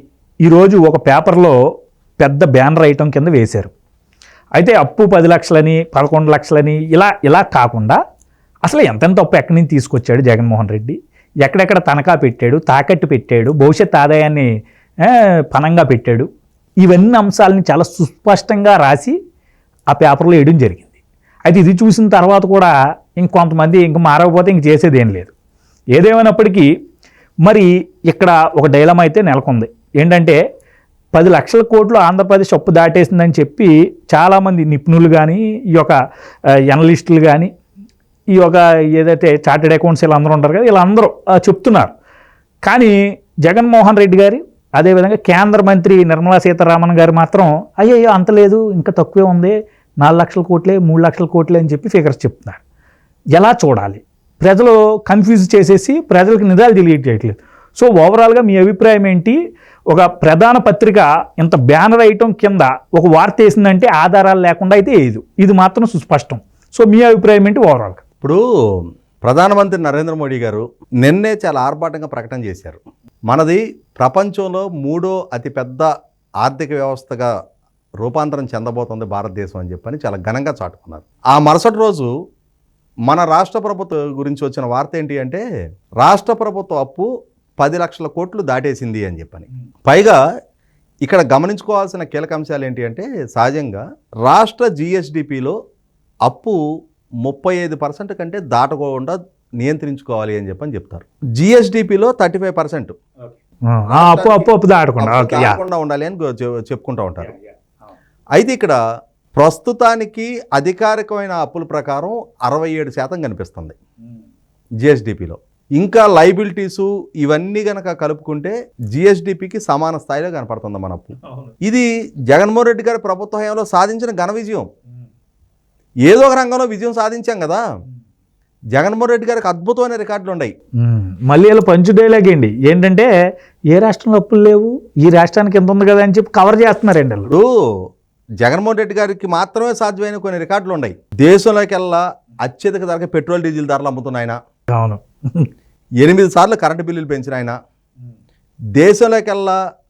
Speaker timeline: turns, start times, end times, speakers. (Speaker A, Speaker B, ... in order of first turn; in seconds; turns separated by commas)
Speaker A: 0.5-1.6, Speaker A: 2.2-3.7, Speaker A: 4.6-8.0, Speaker A: 8.7-14.5, Speaker A: 15.1-16.3, Speaker A: 16.8-19.2, Speaker A: 19.9-20.9, Speaker A: 21.5-25.3, Speaker A: 25.9-26.7, Speaker A: 27.5-30.4, Speaker A: 31.1-36.0, Speaker A: 36.7-37.5, Speaker A: 38.3-41.9, Speaker A: 42.6-52.6, Speaker A: 53.4-59.4, Speaker A: 59.9-68.0, Speaker B: 69.2-75.9, Speaker B: 76.4-77.3, Speaker B: 78.0-82.1, Speaker B: 83.0-85.4, Speaker B: 86.0-87.1, Speaker B: 87.6-90.2, Speaker B: 91.0-95.5, Speaker B: 96.2-96.6, Speaker B: 97.2-102.9, Speaker A: 103.7-105.6, Speaker B: 103.9-104.5, Speaker B: 105.0-107.3, Speaker A: 107.2-107.5, Speaker B: 108.4-108.8, Speaker B: 109.4-113.8, Speaker B: 114.8-124.7, Speaker B: 126.1-127.6, Speaker B: 128.7-130.5, Speaker A: 130.8-133.1, Speaker A: 133.7-137.3, Speaker B: 137.3-137.7, Speaker B: 138.4-144.4, Speaker A: 144.7-145.5, Speaker B: 146.0-147.6, Speaker B: 148.8-149.6